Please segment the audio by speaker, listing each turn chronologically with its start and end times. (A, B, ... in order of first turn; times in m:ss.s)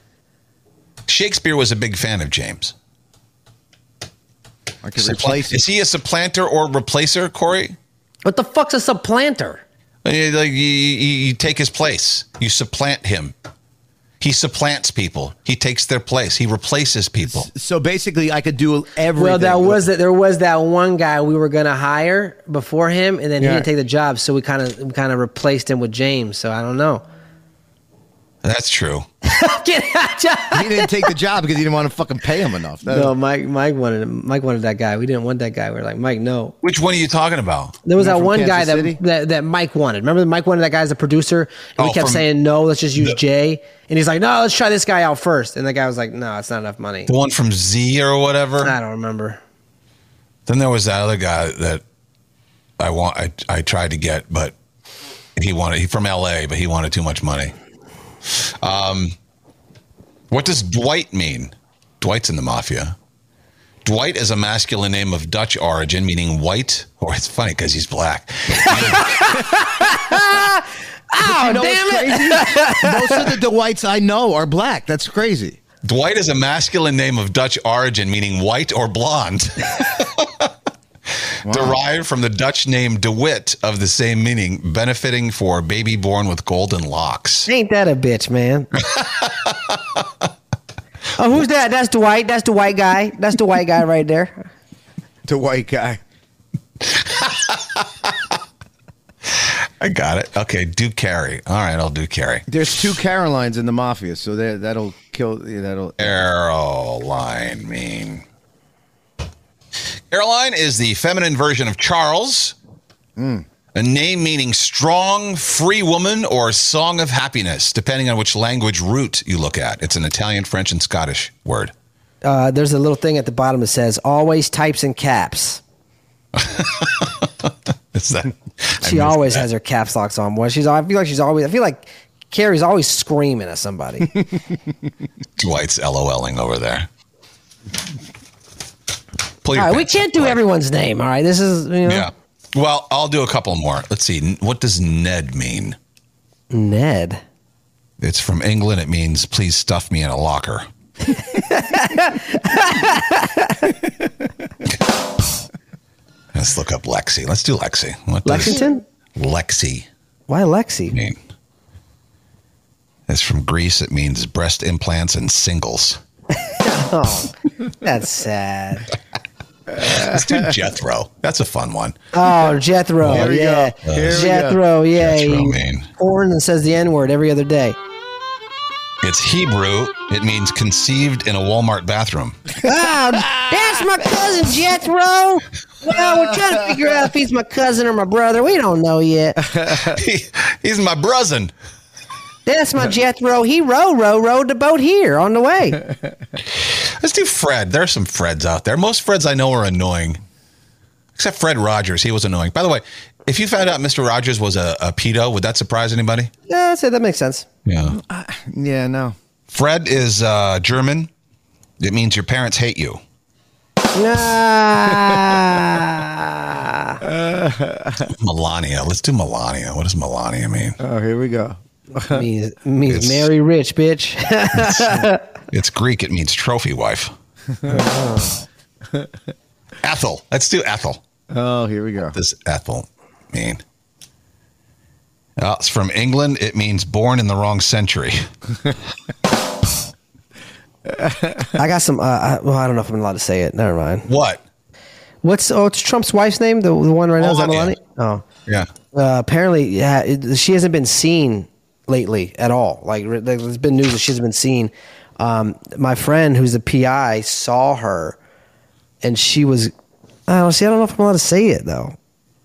0:01.1-0:02.7 A
0:04.8-0:05.6 B
0:05.0-0:07.8 A
0:08.2-0:09.6 C
0:10.0-0:13.3 A
0:14.2-0:17.5 A
0:17.2-0:19.8 B
0:19.2-0:27.0 C
0:23.4-0:23.7 B
0:28.4-0:29.0 A
0:29.2-0:31.1 C
0:30.5-0:33.1 B
0:32.8-0:36.5 C
0:36.6-0:37.8 A
0:37.8-0:47.1 C
0:38.0-0:39.0 B
0:41.8-0:42.2 A
0:47.1-0:48.7 A
0:48.6-0:49.4 C
0:50.5-0:51.8 A
0:52.8-0:54.5 A
0:55.4-0:57.5 A
0:58.3-0:59.1 A
1:00.3-1:03.0 A
1:03.8-1:09.3 A
1:08.6-1:13.3 C
1:11.2-1:15.6 B
1:15.8-1:20.5 A
1:21.4-1:21.8 B
1:21.4-1:27.5 A
1:27.5-1:28.7 C
1:28.8-1:29.8 A
1:31.2-1:34.5 C
1:35.2-1:36.0 B
1:36.9-1:37.8 A
1:39.3-1:42.4 A
1:42.5-1:46.2 B
1:46.0-1:48.2 A
1:50.1-1:52.5 A
1:53.2-1:53.5 B
1:53.7-2:01.7 A
2:02.2-2:05.6 C
2:06.4-2:09.5 A
2:08.8-2:14.2 C
2:15.4-2:16.9 A
2:19.4-2:20.4 A
2:19.5-2:22.1 C
2:21.8-2:25.8 A
2:26.5-2:27.2 C
2:28.0-2:30.6 A
2:31.3-2:33.7 C
2:36.3-2:38.6 A
2:38.2-2:38.8 C
2:39.2-2:39.9 A
2:40.3-2:40.9 C
2:40.9-2:41.2 A
2:43.1-2:46.0 A
2:46.4-2:48.9 C
2:49.7-2:50.4 B
2:49.8-2:52.0 A
2:52.1-2:57.8 C
2:53.0-2:53.3 A
2:53.1-2:54.6 B
2:53.9-2:54.2 A
2:55.0-2:55.9 A
2:59.0-3:02.4 A
3:02.6-3:09.4 C
3:03.2-3:03.6 B
3:09.5-3:09.9 B
3:09.7-3:11.5 A
3:12.4-3:15.8 C
3:16.5-3:20.2 A
3:21.2-3:26.3 A
3:26.5-3:27.4 C
3:27.6-3:28.0 A
3:27.8-3:29.2 B
3:29.5-3:31.1 A
3:31.8-3:33.0 A
3:33.9-3:37.0 C
3:37.0-3:38.1 B
3:38.1-3:40.8 A
3:40.8-3:42.2 B
3:42.0-3:45.2 C
3:42.9-3:43.3 A
3:44.5-3:47.1 A
3:47.6-3:47.8 B
3:47.7-3:48.3 C
3:49.8-3:51.0 A
3:51.3-3:52.1 B
3:52.1-3:53.6 A
3:55.4-3:58.3 A
4:00.9-4:01.5 B
4:01.5-4:04.1 C
4:04.1-4:04.4 A
4:05.2-4:08.2 C
4:07.2-4:07.8 A
4:08.9-4:18.2 C
4:19.0-4:19.7 C
4:20.3-4:22.0 C